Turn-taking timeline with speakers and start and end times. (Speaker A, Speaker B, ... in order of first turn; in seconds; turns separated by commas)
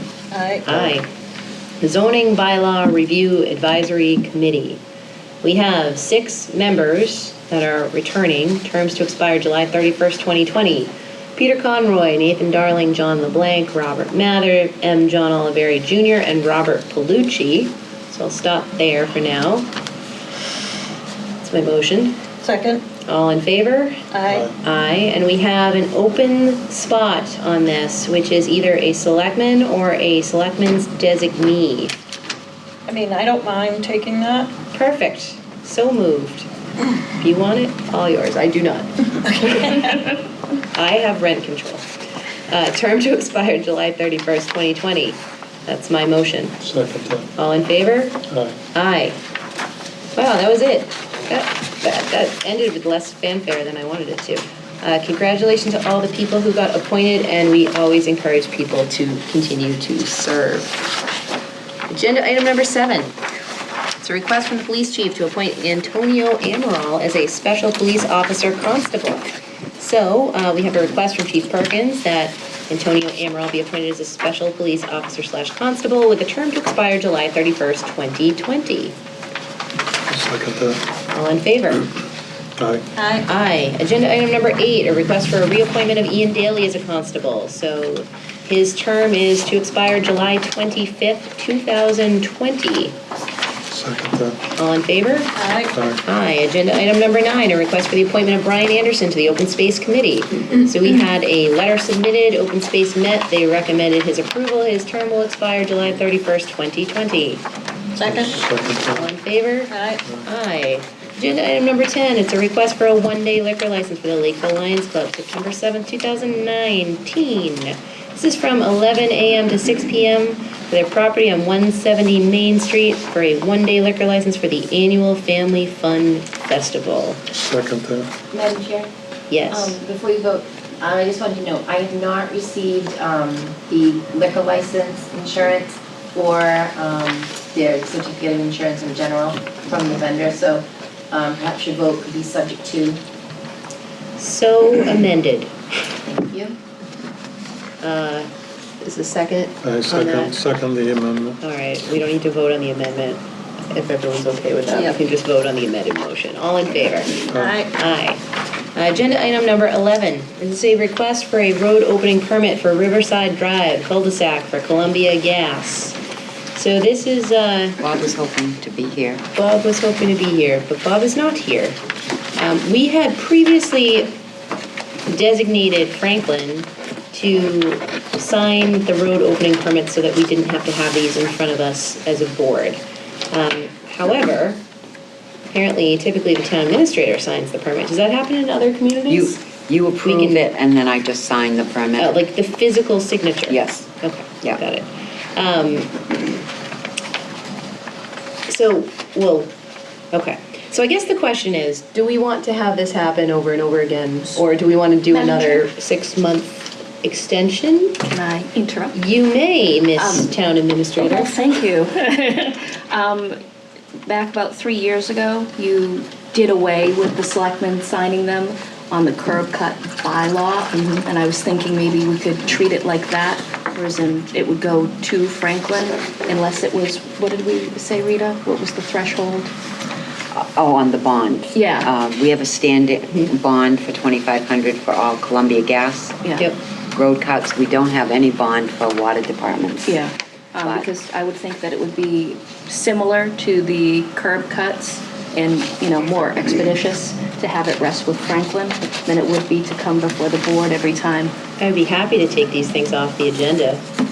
Speaker A: 0.3-0.6, Speaker B: 0.6-1.1, Speaker C: 0.7-1.0, Speaker B: 1.8-4.8, Speaker B: 5.4-19.7, Speaker B: 21.4-22.1, Speaker A: 22.4-22.8, Speaker B: 23.1-24.0, Speaker A: 24.1-24.5, Speaker C: 24.3-24.5, Speaker B: 24.6-31.9, Speaker A: 32.9-34.5, Speaker B: 34.7-36.5, Speaker B: 37.1-39.9, Speaker A: 39.4-40.1, Speaker B: 40.7-41.8, Speaker B: 42.5-46.6, Speaker C: 46.6-47.3, Speaker B: 47.4-48.2, Speaker C: 48.3-48.6, Speaker B: 48.7-49.2, Speaker B: 50.1-60.7, Speaker B: 61.9-63.1, Speaker B: 64.0-69.2, Speaker B: 69.8-78.9, Speaker C: 80.1-80.8, Speaker B: 81.1-81.9, Speaker C: 82.6-82.8, Speaker A: 83.0-83.3, Speaker B: 83.2-92.9, Speaker C: 93.7-94.4, Speaker B: 94.5-95.3, Speaker A: 95.3-95.7, Speaker C: 95.7-96.0, Speaker B: 96.0-107.4, Speaker A: 108.0-108.4, Speaker C: 108.0-109.1, Speaker B: 108.9-127.2, Speaker A: 109.7-110.0, Speaker C: 127.3-128.1, Speaker B: 129.3-129.8, Speaker D: 129.5-140.6, Speaker D: 141.1-142.9, Speaker B: 144.2-145.5, Speaker E: 146.1-146.4, Speaker B: 147.8-148.3, Speaker C: 149.6-151.4, Speaker B: 149.9-150.3, Speaker B: 151.4-158.2, Speaker C: 157.3-157.6, Speaker A: 157.3-157.7, Speaker B: 158.7-166.0, Speaker B: 166.5-167.8, Speaker F: 167.8-169.2, Speaker B: 169.3-171.8, Speaker B: 172.3-174.2, Speaker B: 175.1-182.8, Speaker B: 183.3-184.6, Speaker B: 185.5-189.4, Speaker F: 189.1-192.1, Speaker B: 190.0-190.5, Speaker B: 192.0-196.0, Speaker F: 193.5-193.9, Speaker B: 198.5-199.5, Speaker B: 200.1-208.0, Speaker E: 205.1-205.6, Speaker E: 208.1-209.0, Speaker B: 208.9-211.3, Speaker E: 209.9-210.3, Speaker E: 211.0-213.4, Speaker E: 214.1-229.5, Speaker F: 230.3-236.1, Speaker E: 231.5-231.9, Speaker E: 236.2-236.5, Speaker F: 236.9-240.0, Speaker E: 239.8-251.3, Speaker F: 240.6-240.9, Speaker B: 251.6-253.8